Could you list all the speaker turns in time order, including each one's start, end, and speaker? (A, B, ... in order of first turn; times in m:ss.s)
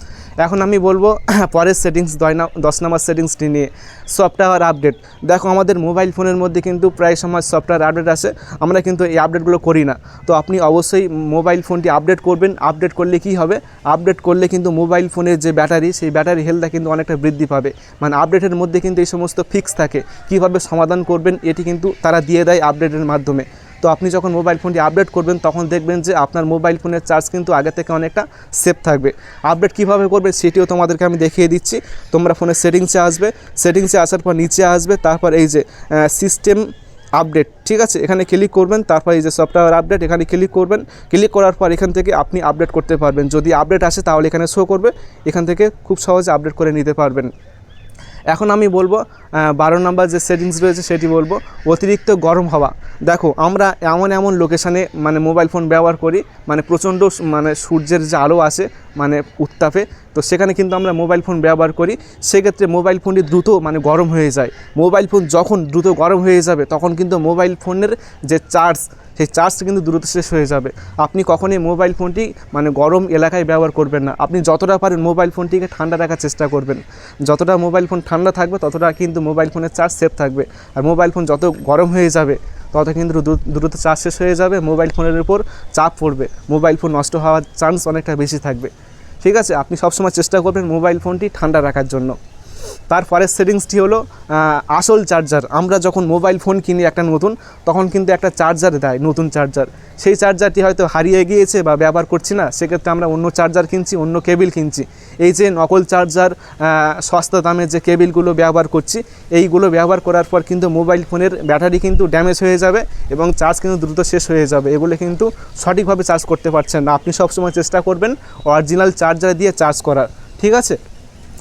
0:00.4-0:47.3 A
0:48.3-1:28.7 A
1:29.2-1:32.2 A
1:32.9-2:00.8 A